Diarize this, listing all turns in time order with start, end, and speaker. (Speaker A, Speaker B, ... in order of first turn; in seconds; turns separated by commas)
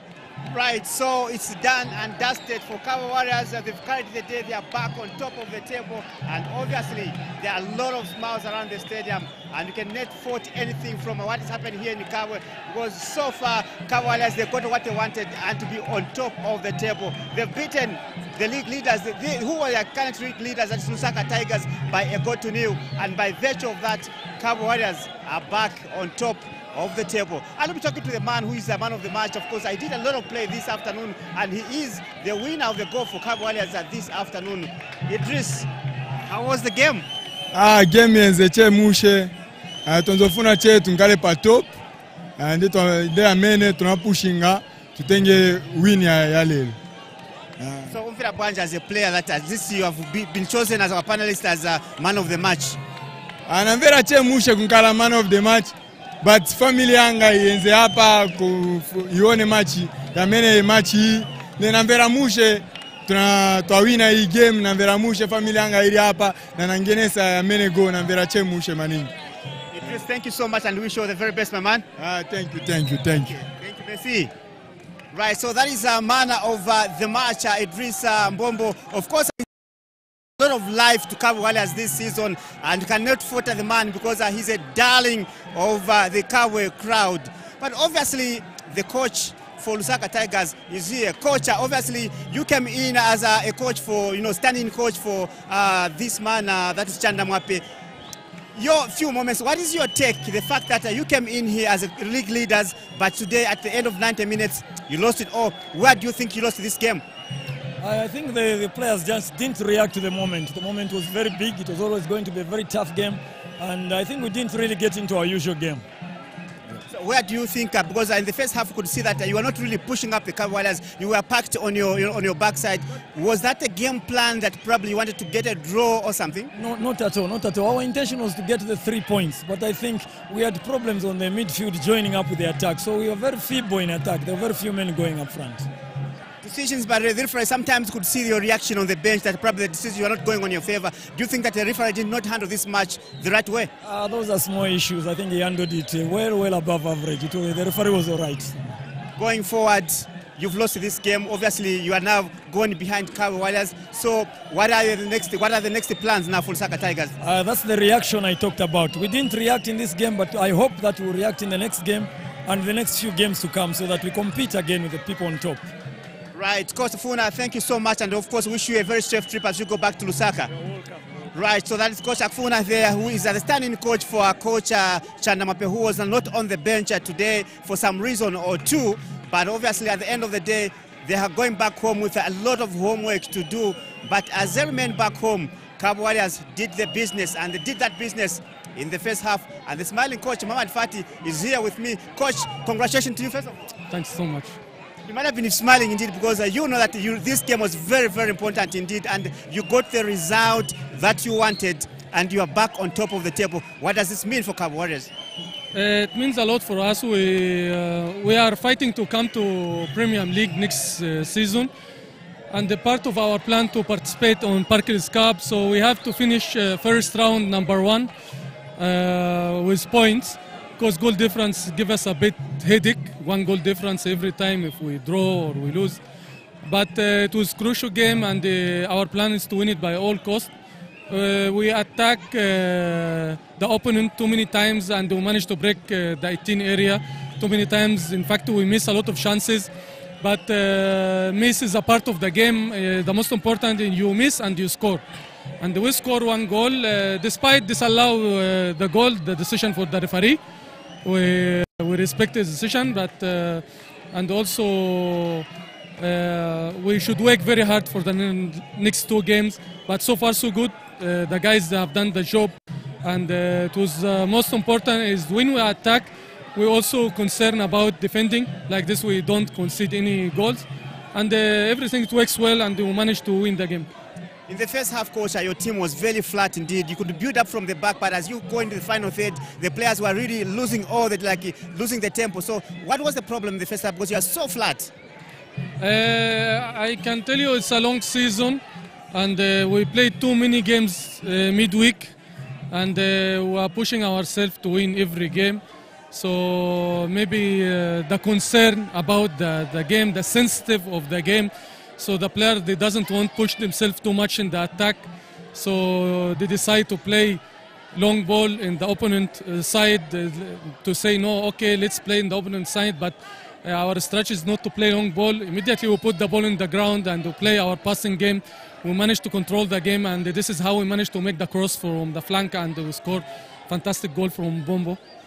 Speaker A: 0.5-35.7, Speaker A: 36.3-37.1, Speaker B: 37.5-39.3, Speaker B: 39.9-41.7, Speaker B: 42.4-46.8, Speaker B: 47.6-47.9, Speaker A: 47.9-52.8, Speaker B: 53.5-69.1, Speaker A: 69.7-71.9, Speaker B: 72.0-73.4, Speaker A: 73.2-74.3, Speaker A: 75.1-79.5, Speaker A: 80.4-97.6, Speaker A: 98.5-107.0, Speaker C: 107.8-115.8, Speaker A: 116.9-126.5, Speaker C: 126.5-135.7, Speaker A: 136.4-143.7, Speaker C: 143.8-148.6, Speaker A: 149.2-157.2, Speaker C: 157.2-165.7, Speaker A: 166.3-170.5, Speaker C: 170.6-171.0, Speaker A: 171.3-193.6, Speaker D: 193.9-194.6, Speaker A: 195.1-205.1, Speaker D: 205.7-211.7, Speaker D: 212.5-218.1, Speaker D: 218.8-226.0, Speaker D: 226.6-230.5, Speaker D: 231.1-239.7, Speaker D: 240.2-245.0, Speaker D: 245.6-250.4, Speaker D: 251.0-255.5, Speaker D: 256.0-273.9, Speaker A: 274.5-284.9, Speaker D: 285.8-292.1, Speaker D: 292.7-307.4, Speaker D: 307.9-325.0